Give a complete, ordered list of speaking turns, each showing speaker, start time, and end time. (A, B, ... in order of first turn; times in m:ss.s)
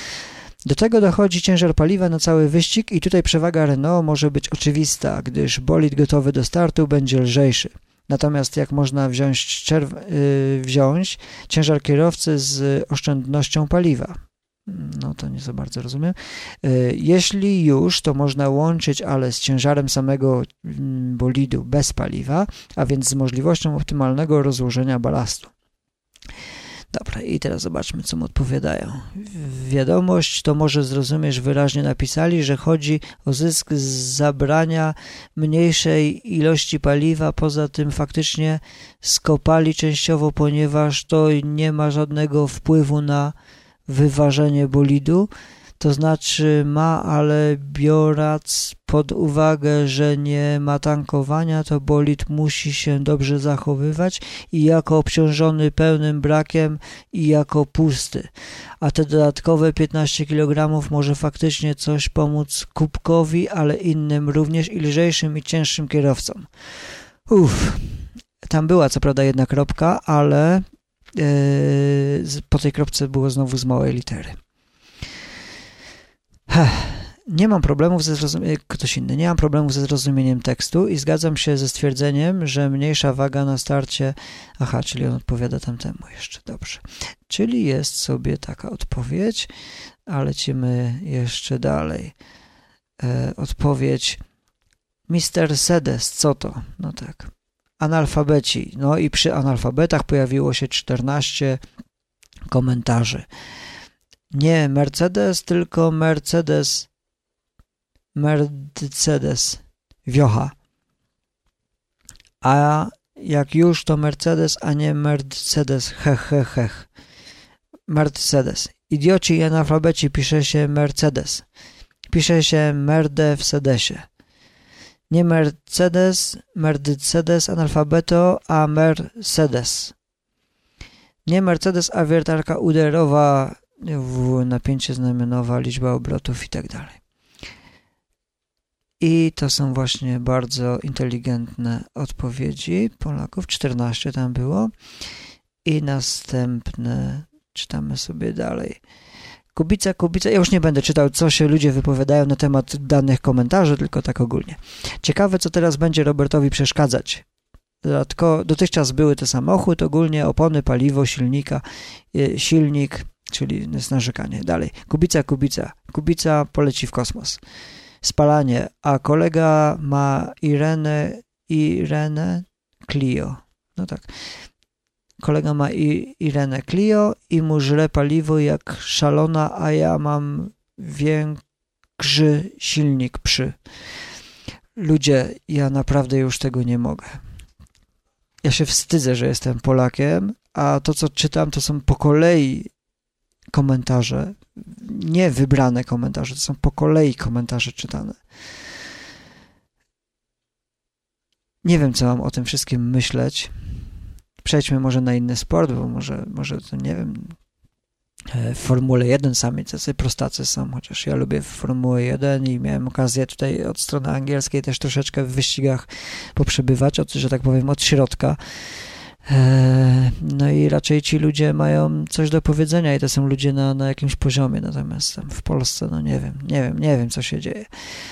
0:00.6-0:25.5 A
0:26.9-0:43.4 A
0:43.9-0:58.3 A
0:58.8-1:06.5 A
1:07.3-1:10.6 A
1:11.2-1:14.4 A
1:16.5-1:29.5 A
1:30.1-1:32.1 A
1:33.0-1:34.2 A
1:35.1-1:41.6 A
1:42.5-1:43.3 A
1:44.3-1:46.9 A
1:48.2-1:50.5 A
1:52.4-1:56.9 A
1:57.9-2:01.4 A
2:02.1-2:04.1 A
2:05.1-2:09.9 A
2:11.3-2:17.0 A
2:19.0-2:24.7 A
2:25.6-2:28.8 A
2:29.6-2:37.2 A
2:37.8-2:47.4 A
2:48.0-2:54.1 A
2:55.2-3:01.4 A
3:02.0-3:03.6 A
3:04.8-3:07.2 A
3:08.4-3:12.7 A
3:13.5-3:18.2 A
3:21.6-3:23.5 A
3:24.4-3:27.4 A
3:28.3-3:38.4 A
3:39.3-3:47.7 A